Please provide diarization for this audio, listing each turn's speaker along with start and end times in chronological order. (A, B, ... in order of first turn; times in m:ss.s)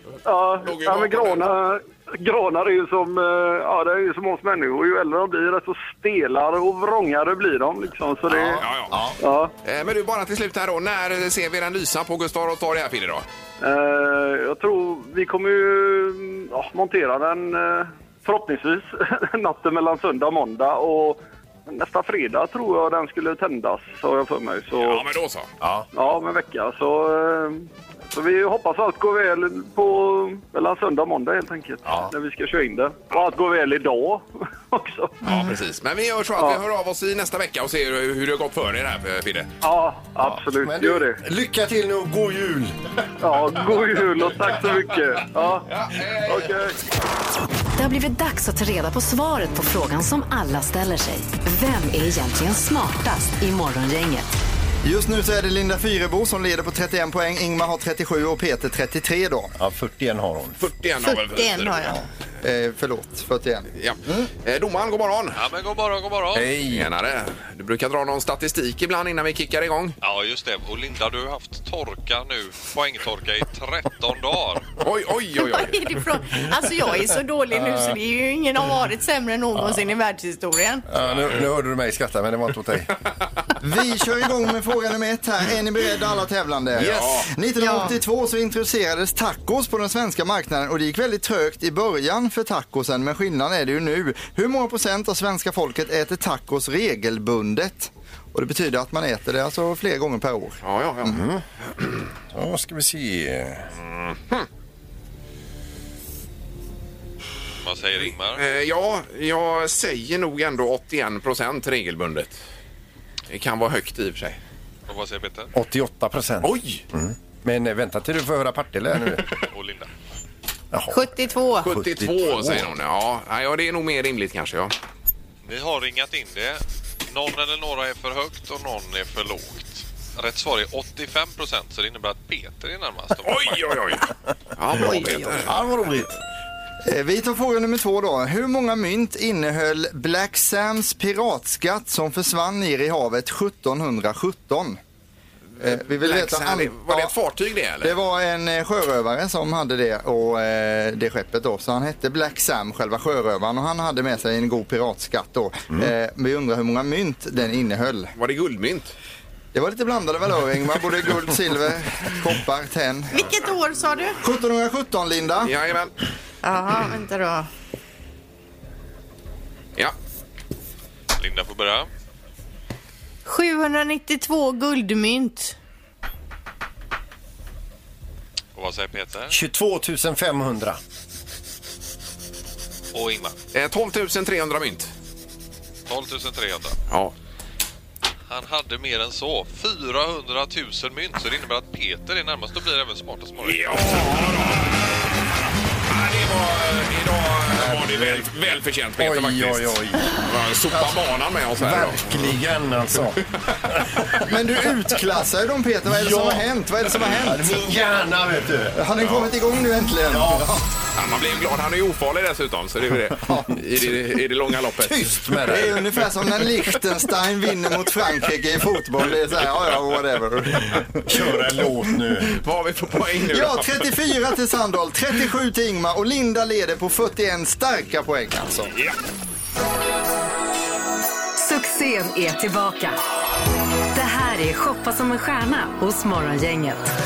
0:00.3-0:08.6 A
0:00.6-0:01.5 B
0:08.3-0:09.2 C
0:08.6-0:09.0 B
0:09.2-0:09.5 A
0:09.6-0:13.2 B
0:13.6-0:25.1 A
0:24.8-0:25.5 B
0:25.6-0:25.9 C
0:25.9-0:35.2 A
0:35.2-0:35.6 D
0:35.2-0:39.5 B
0:39.6-0:41.2 A
0:40.2-0:42.8 C
0:43.2-0:45.7 A
0:45.7-0:46.5 B
0:46.2-0:46.8 A
0:47.8-0:54.3 E
0:54.8-0:59.5 F
0:59.6-1:00.6 C
1:00.6-1:02.0 B
1:01.0-1:02.0 D
1:02.4-1:04.3 F
1:03.8-1:05.4 B
1:05.4-1:06.5 G
1:06.3-1:06.9 C
1:06.6-1:10.0 B
1:10.0-1:14.7 G
1:14.8-1:15.8 B
1:15.4-1:20.8 D
1:20.9-1:22.9 C
1:23.6-1:41.2 F
1:26.7-1:27.3 C
1:26.8-1:27.2 B
1:27.6-1:27.9 D
1:40.6-1:41.2 B
1:41.0-1:41.4 C
1:42.3-1:43.7 C
1:43.8-1:44.5 B
1:47.6-1:48.4 G
1:48.4-1:52.4 B
1:53.3-1:54.4 B
1:54.9-1:55.5 G
1:55.6-1:59.2 C
1:56.4-1:56.8 B
1:59.4-1:59.9 G
2:00.7-2:02.7 C
2:00.9-2:01.7 D
2:01.6-2:04.7 B
2:05.4-2:13.6 G
2:13.2-2:15.6 B
2:14.7-2:16.1 C
2:16.9-2:24.8 F
2:25.6-2:28.0 B
2:25.6-2:27.1 F
2:27.8-2:38.1 F
2:38.2-2:38.9 B
2:39.5-2:43.2 F
2:43.1-2:44.2 D
2:44.2-2:45.6 F
2:45.4-2:45.9 B
2:46.4-2:47.5 D
2:51.2-2:51.9 G
2:53.3-2:55.6 D
2:58.6-2:59.4 G
2:59.3-3:00.8 C
3:02.9-3:03.4 G
3:03.5-3:04.9 B
3:05.9-3:06.8 G
3:06.9-3:07.2 B
3:08.3-3:14.2 G
3:13.4-3:14.7 B
3:15.9-3:22.1 B
3:17.6-3:18.2 C
3:19.0-3:21.0 C
3:21.6-3:24.3 C
3:24.2-3:27.6 F
3:25.9-3:26.5 C
3:27.0-3:28.8 C
3:28.8-3:30.6 F
3:30.1-3:30.5 C
3:31.0-3:35.4 B
3:34.7-3:36.0 C
3:35.4-3:41.4 F
3:41.0-3:42.4 C
3:42.3-3:43.8 B
3:43.3-3:48.7 F
3:51.4-3:53.0 E
3:53.9-3:56.9 E